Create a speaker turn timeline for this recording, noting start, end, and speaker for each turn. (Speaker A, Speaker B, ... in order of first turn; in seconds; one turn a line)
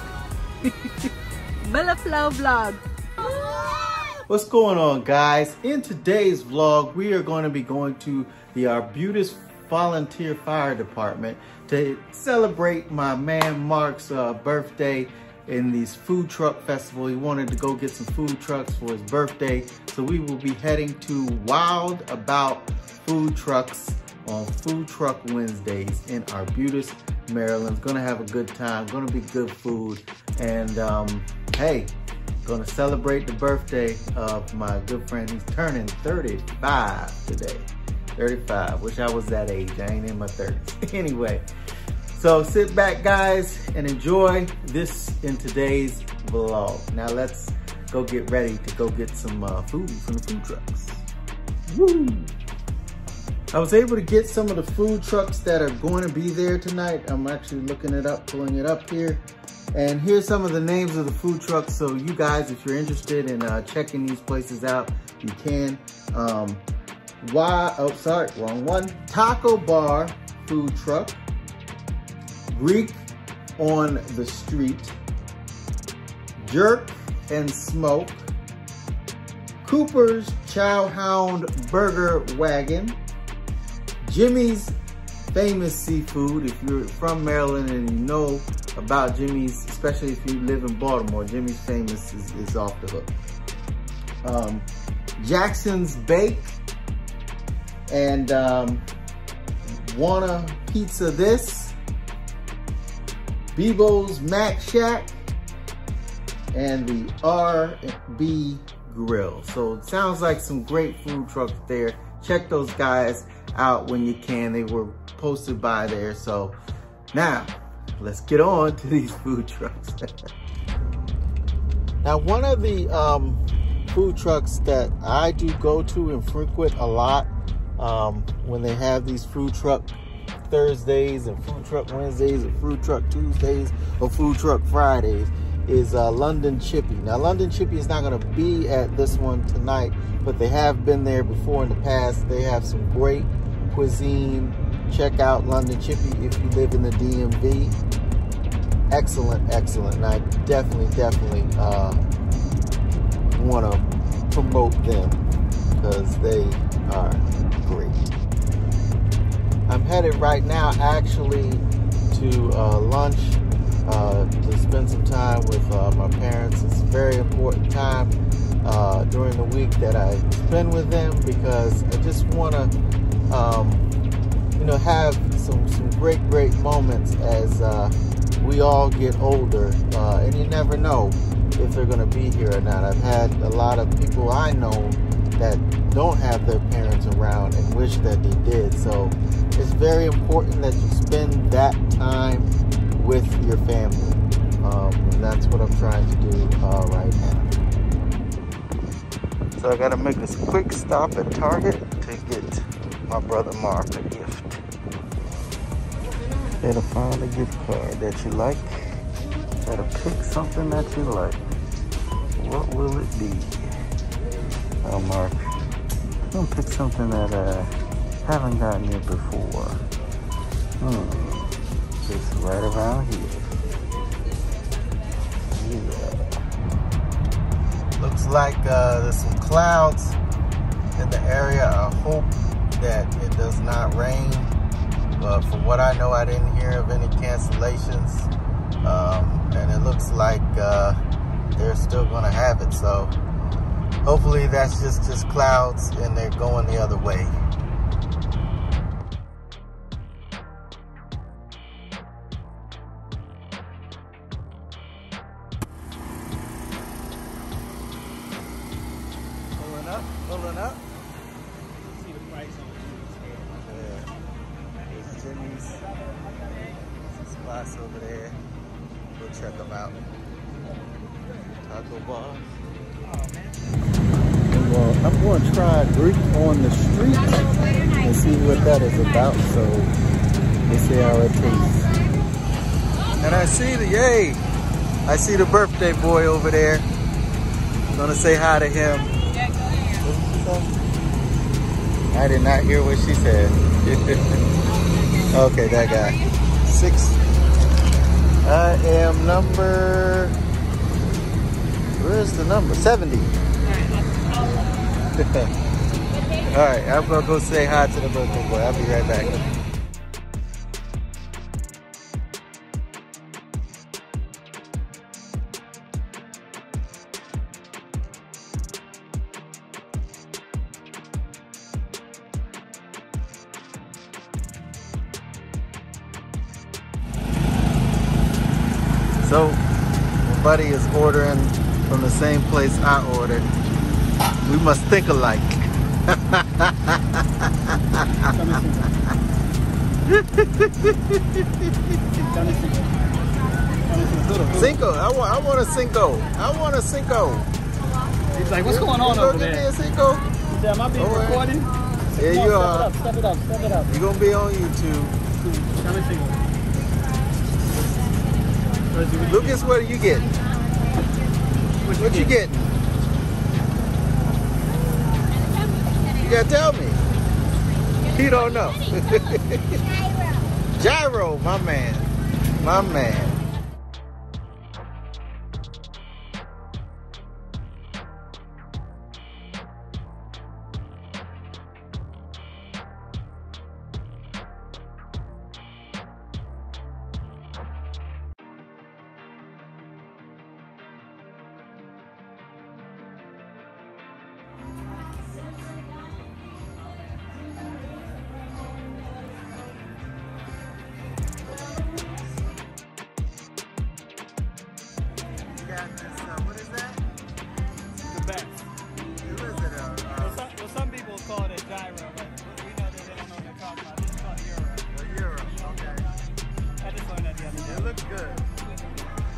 Speaker A: 1.6-4.1
Speaker B: 4.3-41.5
Speaker B: 42.1-51.0
Speaker B: 51.7-52.3
Speaker B: 53.5-66.6
Speaker B: 67.2-71.2
Speaker B: 72.5-73.0
Speaker B: 73.6-75.0
Speaker B: 76.4-78.3
Speaker B: 79.6-83.0
Speaker B: 84.0-84.8
Speaker B: 85.3-93.1
Speaker B: 94.2-94.7
Speaker B: 95.2-96.5
Speaker B: 97.9-98.8
Speaker B: 99.6-101.8
Speaker B: 103.5-105.2
Speaker B: 106.5-116.6
Speaker B: 117.1-120.1
Speaker B: 122.0-147.8
Speaker B: 148.9-152.0
Speaker B: 153.3-155.2
Speaker B: 155.8-158.1
Speaker B: 159.7-172.7
Speaker B: 173.3-173.8
Speaker B: 174.6-197.5
Speaker B: 199.6-204.6
Speaker B: 206.6-209.0
Speaker B: 209.6-211.4
Speaker B: 212.3-213.7
Speaker B: 214.8-215.4
Speaker B: 216.3-217.7
Speaker B: 218.2-219.8
Speaker B: 220.8-223.5
Speaker B: 225.5-226.4
Speaker B: 228.0-230.2
Speaker B: 230.9-234.5
Speaker B: 235.2-238.3
Speaker B: 238.8-240.9
Speaker B: 241.6-243.1
Speaker B: 244.0-247.3
Speaker B: 259.5-260.8
Speaker C: 261.9-263.4
Speaker B: 263.4-264.1
Speaker B: 264.9-265.8
Speaker B: 266.9-268.4
Speaker B: 269.1-270.0
Speaker B: 271.6-272.6
Speaker C: 273.2-273.5
Speaker B: 274.5-279.9
Speaker B: 280.7-281.9
Speaker B: 283.2-284.4
Speaker B: 285.1-286.9
Speaker B: 287.9-289.1
Speaker B: 289.9-290.7
Speaker B: 292.1-294.4
Speaker B: 295.3-297.2
Speaker B: 298.4-300.4
Speaker B: 302.0-303.4
Speaker B: 304.3-305.5
Speaker B: 306.4-309.5
Speaker B: 329.2-329.6
Speaker B: 330.2-333.5
Speaker B: 334.4-339.1
Speaker C: 338.3-338.9
Speaker B: 340.1-342.3
Speaker C: 342.3-342.9
Speaker C: 343.8-344.6
Speaker B: 344.5-347.5
Speaker B: 348.4-350.3
Speaker C: 348.4-349.6
Speaker C: 350.5-353.9
Speaker B: 350.9-351.6
Speaker B: 352.1-353.0
Speaker B: 353.9-355.2
Speaker C: 355.4-356.4
Speaker C: 358.9-359.3
Speaker B: 359.2-360.4
Speaker C: 361.8-362.3
Speaker B: 361.9-362.7
Speaker B: 366.1-367.1
Speaker B: 368.0-369.8
Speaker B: 370.8-373.4
Speaker B: 405.4-407.0
Speaker C: 408.1-408.6
Speaker B: 409.2-410.5
Speaker C: 410.2-414.9
Speaker B: 414.9-416.1
Speaker C: 416.8-417.9
Speaker B: 417.5-418.5